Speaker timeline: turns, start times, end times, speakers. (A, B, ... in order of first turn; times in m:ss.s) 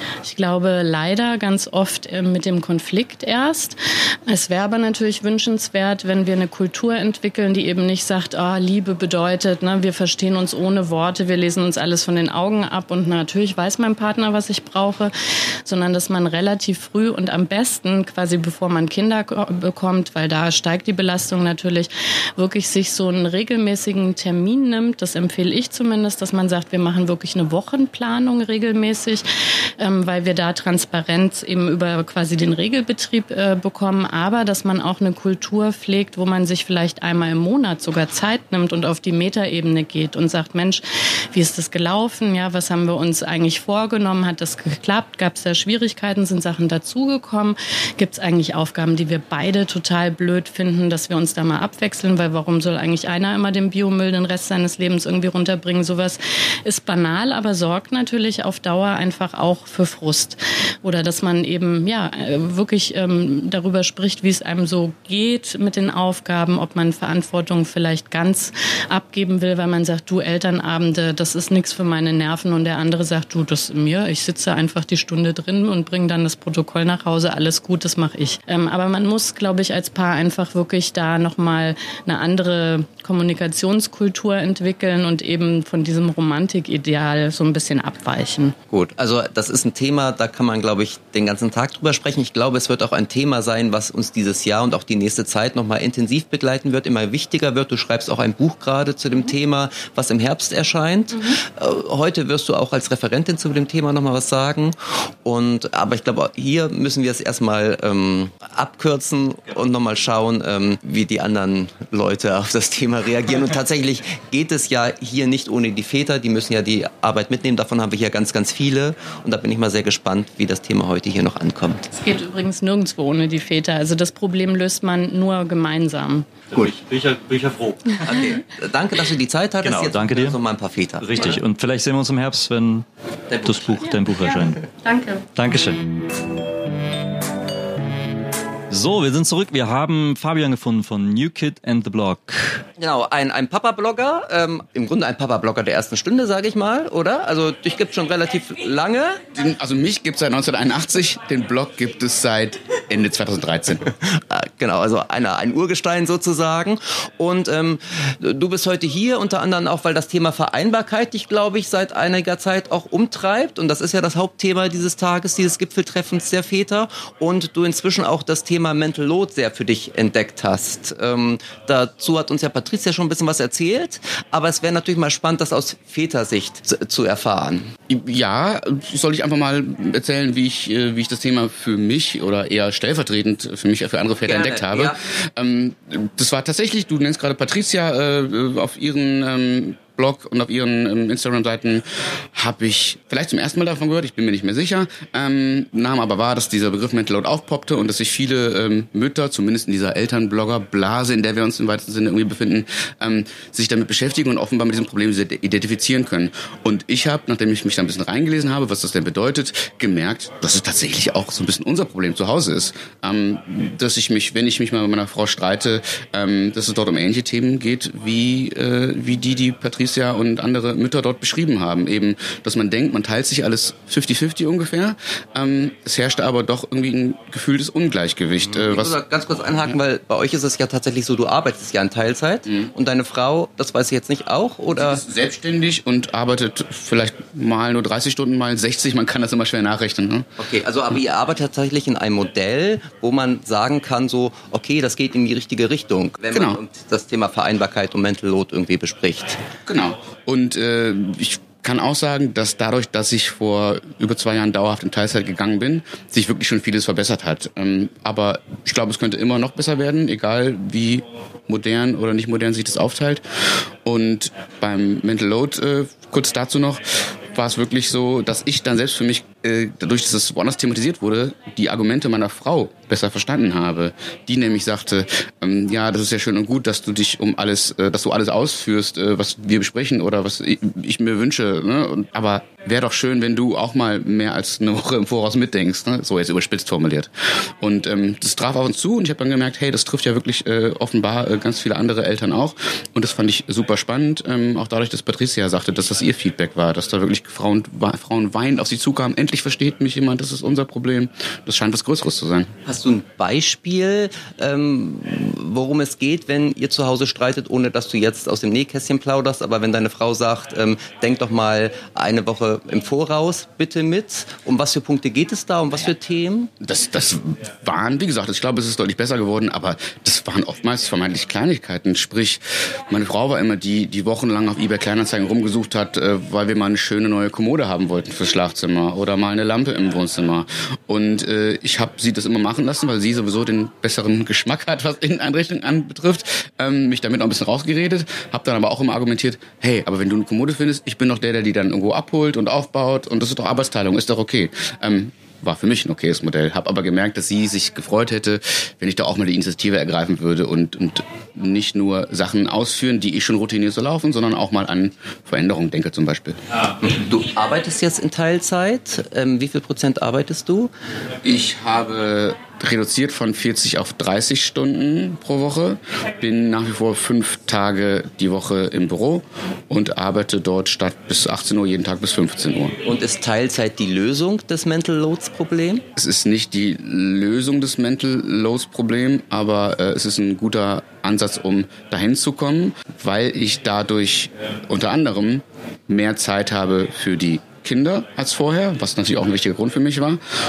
0:00.2-0:15.1 A
0:15.6-1:28.6 A
1:28.7-2:01.9 B
2:01.9-2:06.3 A
2:06.5-2:08.2 C
2:08.0-2:11.1 B
2:09.6-2:10.4 C
2:11.0-2:12.8 C
2:13.3-2:13.7 B
2:13.4-2:14.6 C
2:13.8-2:15.2 A
2:15.3-2:15.8 C
2:18.7-2:22.6 C
2:22.8-2:29.2 B
2:29.3-2:33.9 D
2:34.1-2:57.7 B
2:57.9-3:49.0 D
3:04.2-3:05.0 B
3:48.4-3:55.0 B
3:54.7-4:00.3 D
4:00.4-4:09.4 B
4:06.3-4:06.6 D
4:09.7-5:02.5 D
5:02.6-5:16.5 B
5:16.6-5:56.4 D
5:56.8-6:00.7 B
6:01.2-6:12.8 D
6:12.8-6:15.8 B
6:16.0-6:30.2 D